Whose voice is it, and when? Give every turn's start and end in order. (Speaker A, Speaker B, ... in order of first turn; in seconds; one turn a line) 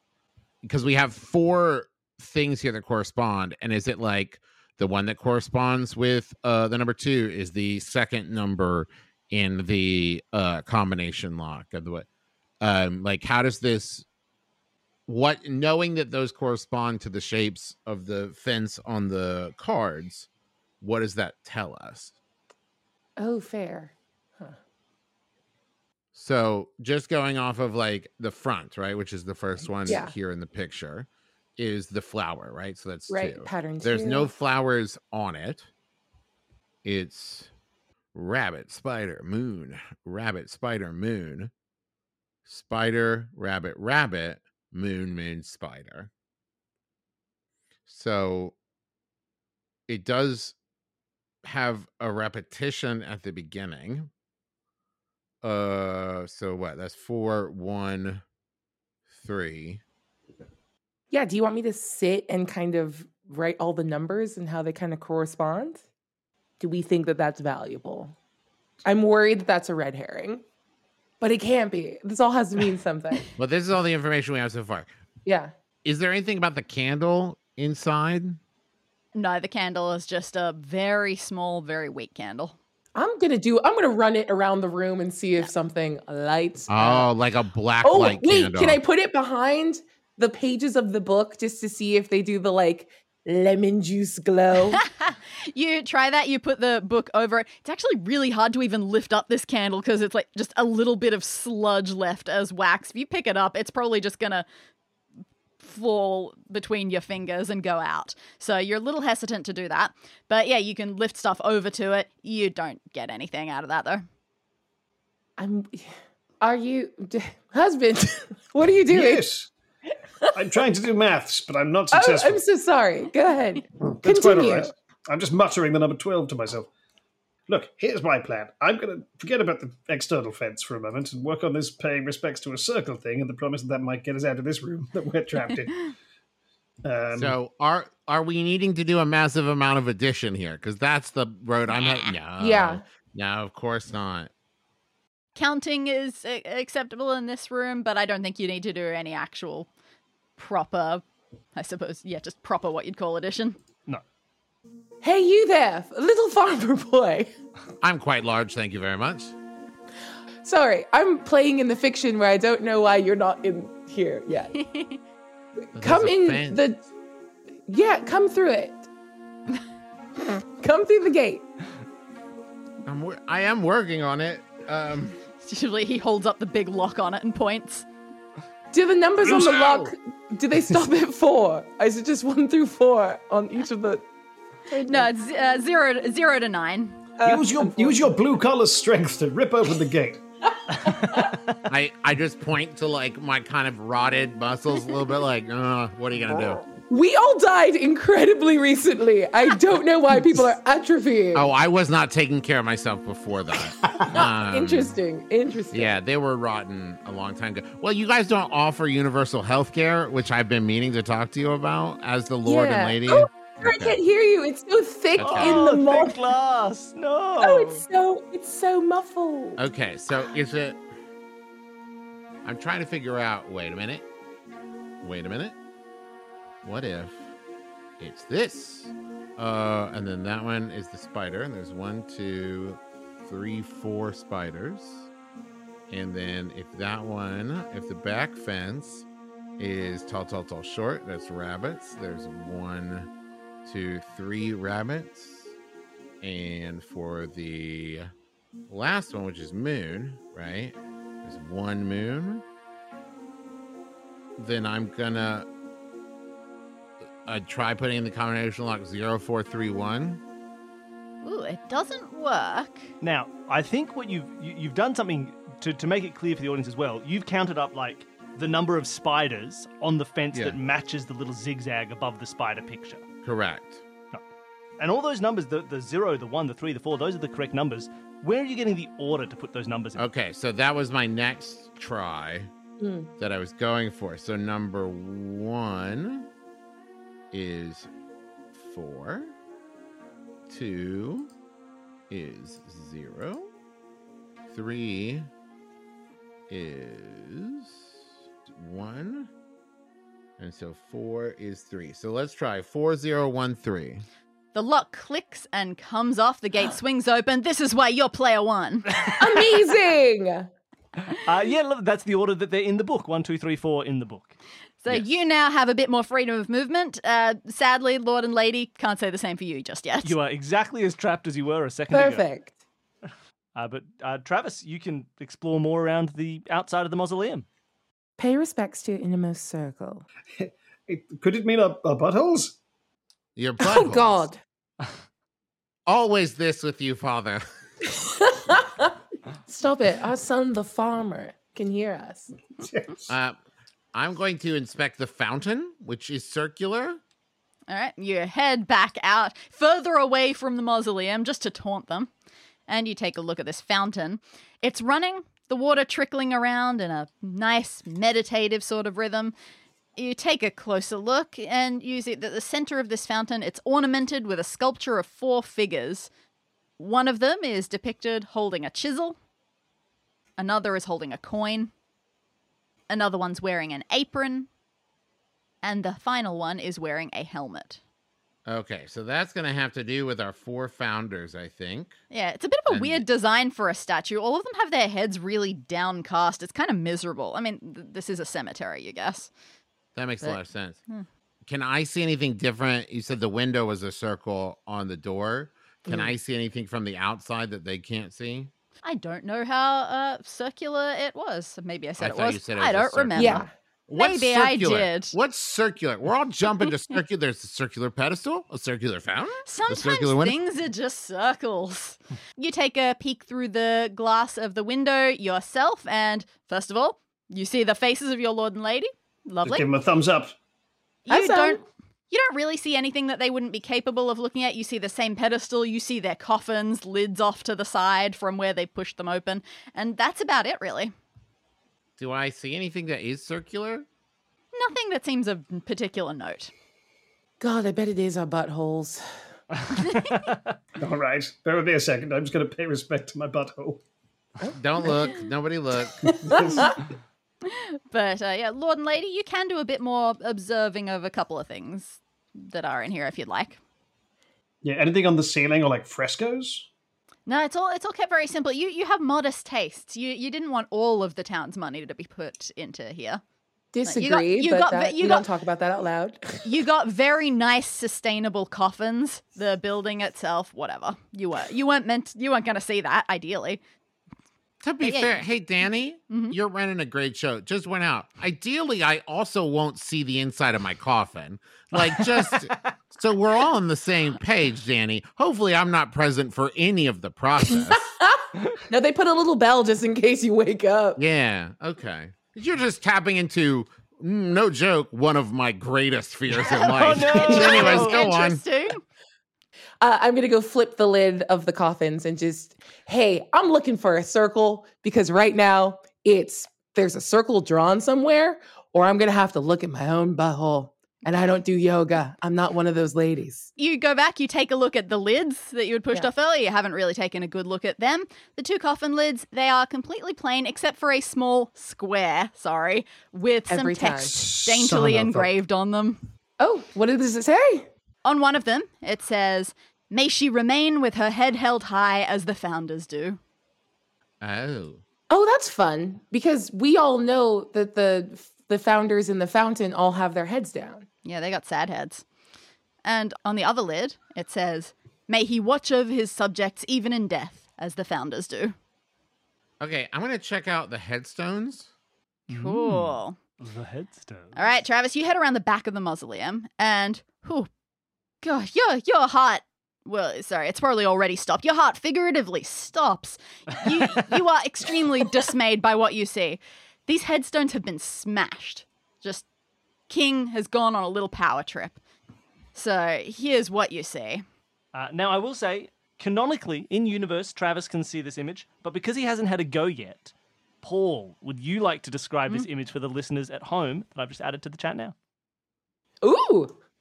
Speaker A: 0.6-12.1
Speaker A: 12.6-14.1
Speaker A: 15.1-20.3
Speaker A: 20.8-22.1
Speaker B: 23.2-24.6
Speaker A: 26.1-35.7
Speaker B: 29.9-30.1
Speaker B: 33.1-34.3
Speaker A: 36.8-37.5
Speaker A: 38.1-41.5
Speaker A: 42.4-46.1
Speaker A: 47.9-48.5
Speaker A: 49.9-50.5
Speaker A: 51.4-54.1
Speaker A: 55.4-58.2
Speaker A: 59.1-59.8
Speaker B: 61.1-65.8
Speaker B: 66.6-68.1
Speaker B: 68.8-70.4
Speaker B: 71.2-73.3
Speaker A: 73.4-74.9
Speaker B: 75.2-75.5
Speaker A: 75.8-78.4
Speaker C: 79.1-82.5
Speaker B: 82.9-87.1
Speaker A: 86.7-88.8
Speaker B: 87.8-94.8
Speaker C: 94.7-104.5
Speaker C: 105.6-114.0
Speaker B: 115.4-119.2
Speaker D: 118.9-119.5
Speaker B: 120.2-120.5
Speaker D: 120.3-122.4
Speaker B: 121.9-124.7
Speaker D: 123.8-126.7
Speaker D: 127.5-135.9
Speaker D: 136.8-137.4
Speaker A: 137.1-144.3
Speaker C: 141.7-142.1
Speaker B: 142.4-142.8
Speaker C: 145.3-149.7
Speaker C: 150.4-151.0
Speaker C: 151.5-153.6
Speaker B: 155.0-157.3
Speaker A: 157.8-159.3
Speaker B: 160.4-164.5
Speaker C: 164.5-165.0
Speaker A: 165.7-166.6
Speaker B: 165.7-166.8
Speaker B: 167.7-168.9
Speaker B: 170.2-171.4
Speaker A: 172.8-175.2
Speaker C: 175.4-177.8
Speaker B: 178.7-184.1
Speaker D: 179.2-179.6
Speaker A: 179.2-179.9
Speaker B: 184.7-185.1
Speaker C: 184.8-187.0
Speaker B: 187.2-188.1
Speaker D: 187.2-190.2
Speaker E: 190.8-191.5
Speaker A: 191.7-196.6
Speaker B: 196.8-201.5
Speaker A: 201.3-205.0
Speaker B: 204.1-205.9
Speaker A: 205.7-214.0
Speaker B: 212.4-216.2
Speaker A: 215.2-215.7
Speaker E: 215.2-217.8
Speaker B: 217.4-219.6
Speaker A: 219.6-220.8
Speaker A: 222.4-224.1
Speaker A: 225.0-225.5
Speaker A: 226.6-227.3
Speaker A: 228.0-235.1
Speaker A: 235.9-239.1
Speaker A: 239.6-243.1
Speaker A: 243.6-245.5
Speaker A: 246.2-248.1
Speaker A: 248.7-252.4
Speaker A: 254.4-255.4
Speaker A: 257.2-260.2
Speaker C: 261.2-262.9
Speaker E: 263.0-273.0
Speaker A: 273.2-273.8
Speaker E: 274.8-280.0
Speaker A: 279.9-282.5
Speaker B: 282.8-283.1
Speaker A: 283.2-286.2
Speaker A: 287.3-287.9
Speaker A: 288.5-289.3
Speaker A: 290.5-291.3
Speaker A: 292.1-293.5
Speaker A: 294.5-295.3
Speaker A: 296.5-297.9
Speaker A: 298.5-299.3
Speaker A: 300.4-304.0
Speaker C: 304.5-309.0
Speaker B: 309.2-310.5
Speaker E: 311.2-314.4
Speaker C: 314.8-320.1
Speaker A: 314.9-315.2
Speaker E: 320.0-322.2
Speaker B: 321.9-322.5
Speaker E: 323.5-327.4
Speaker B: 328.2-330.0
Speaker D: 330.4-332.6
Speaker A: 333.4-334.2
Speaker B: 333.6-334.4
Speaker A: 335.9-337.4
Speaker B: 337.8-338.9
Speaker B: 339.5-342.3
Speaker D: 342.6-343.1
Speaker A: 343.1-343.4
Speaker A: 343.9-347.0
Speaker C: 347.7-352.1
Speaker C: 352.7-359.3
Speaker C: 360.0-366.1
Speaker C: 366.8-369.2
Speaker C: 370.4-371.7
Speaker C: 372.9-374.5
Speaker C: 375.6-377.8
Speaker A: 378.5-382.0
Speaker C: 382.1-389.3
Speaker A: 382.7-383.0
Speaker A: 389.9-390.8
Speaker C: 390.2-391.1
Speaker A: 391.4-398.5
Speaker B: 395.9-396.1
Speaker C: 398.8-403.4
Speaker A: 402.0-410.4
Speaker B: 403.1-403.5
Speaker C: 403.9-405.1
Speaker C: 409.4-419.7
Speaker D: 419.4-420.3
Speaker C: 421.1-430.9
Speaker B: 421.1-421.6
Speaker A: 432.0-433.9
Speaker C: 434.5-436.5
Speaker B: 437.4-439.0
Speaker E: 439.6-440.5
Speaker C: 439.8-440.1
Speaker D: 440.8-443.8
Speaker B: 444.4-445.1
Speaker A: 444.5-446.1
Speaker D: 446.1-446.8
Speaker B: 446.2-446.7
Speaker C: 447.4-453.6
Speaker D: 454.6-456.7
Speaker C: 457.3-463.2
Speaker B: 463.7-466.5
Speaker C: 463.8-465.3
Speaker C: 466.4-473.6
Speaker A: 474.6-487.8
Speaker C: 474.8-475.1
Speaker C: 476.1-476.4
Speaker E: 481.7-482.7
Speaker B: 487.5-491.0
Speaker A: 491.0-498.4
Speaker C: 496.4-498.8
Speaker E: 496.5-498.0
Speaker B: 499.8-513.5
Speaker C: 513.6-526.0
Speaker B: 523.5-524.1
Speaker D: 524.1-525.3
Speaker B: 526.4-527.7
Speaker C: 528.0-533.2
Speaker A: 534.2-534.8
Speaker B: 535.1-540.8
Speaker C: 541.0-542.0
Speaker C: 542.8-548.5
Speaker A: 549.6-551.7
Speaker E: 552.3-554.4
Speaker C: 552.3-553.2
Speaker C: 554.3-557.5
Speaker C: 558.2-569.2
Speaker C: 569.9-571.8
Speaker C: 572.5-574.2
Speaker E: 574.7-584.9
Speaker B: 586.0-586.5